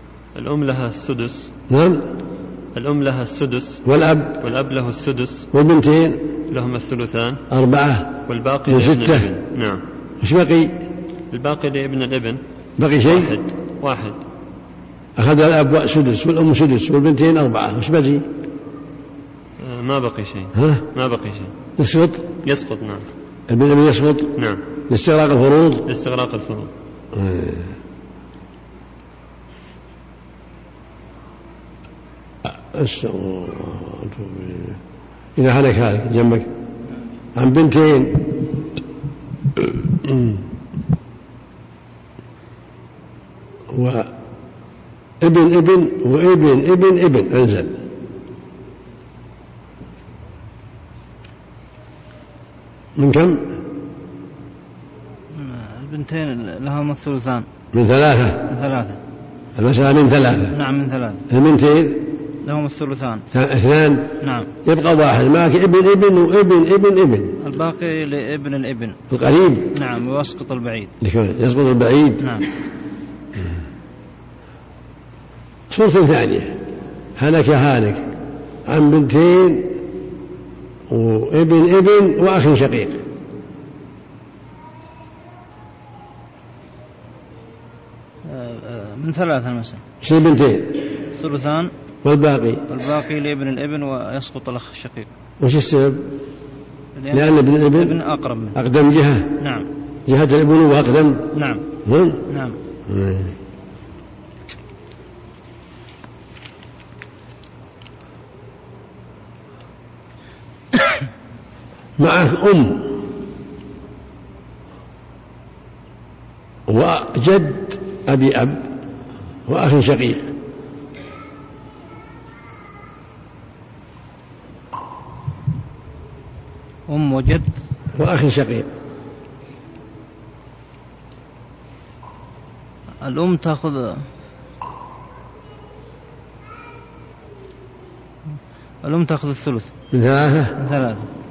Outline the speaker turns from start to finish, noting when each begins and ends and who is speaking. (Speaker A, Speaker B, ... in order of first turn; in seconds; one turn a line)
Speaker A: 0.3-1.5
Speaker B: 1.7-2.0
Speaker A: 2.7-3.8
Speaker B: 3.8-4.4
Speaker A: 4.4-5.5
Speaker B: 5.5-6.3
Speaker A: 6.5-7.4
Speaker B: 7.5-9.3
Speaker A: 8.3-9.8
Speaker B: 10.2-10.8
Speaker A: 11.3-12.4
Speaker B: 12.8-13.4
Speaker A: 13.0-14.2
Speaker B: 15.2-18.2
Speaker A: 19.6-21.5
Speaker B: 20.5-20.9
Speaker B: 21.8-22.3
Speaker A: 22.4-23.0
Speaker B: 23.5-24.4
Speaker A: 24.4-24.6
Speaker B: 24.9-25.9
Speaker A: 25.9-26.7
Speaker B: 27.1-27.7
Speaker B: 32.4-34.8
Speaker B: 35.4-36.5
Speaker B: 37.3-38.5
Speaker B: 39.6-40.5
Speaker B: 43.7-44.1
Speaker B: 45.2-47.8
Speaker B: 53.0-53.5
Speaker C: 55.3-57.5
Speaker B: 57.7-58.5
Speaker C: 58.5-59.0
Speaker B: 59.5-60.5
Speaker C: 60.5-61.3
Speaker B: 61.3-62.1
Speaker C: 62.4-63.3
Speaker B: 63.3-64.1
Speaker C: 64.2-64.5
Speaker B: 64.6-67.3
Speaker C: 67.4-69.0
Speaker B: 69.1-69.7
Speaker C: 69.7-70.9
Speaker B: 71.0-72.2
Speaker C: 72.2-72.5
Speaker B: 75.7-76.6
Speaker B: 77.2-78.1
Speaker B: 78.7-79.8
Speaker B: 80.9-83.0
Speaker C: 88.2-89.8
Speaker B: 90.0-90.8
Speaker C: 91.1-91.7
Speaker B: 92.0-92.6
Speaker C: 92.7-95.1
Speaker B: 95.4-96.0
Speaker C: 97.0-98.5
Speaker B: 97.1-98.0
Speaker B: 98.5-99.3
Speaker C: 99.4-99.7
Speaker B: 100.1-101.3
Speaker C: 101.3-101.6
Speaker B: 101.8-102.2
Speaker C: 102.3-102.5
Speaker B: 102.9-103.3
Speaker B: 112.0-113.0
Speaker B: 116.7-118.7
Speaker B: 119.5-120.3
Speaker C: 126.9-127.6
Speaker B: 127.9-128.7
Speaker C: 133.0-134.0
Speaker C: 138.8-139.7
Speaker B: 139.9-140.6
Speaker C: 140.6-141.1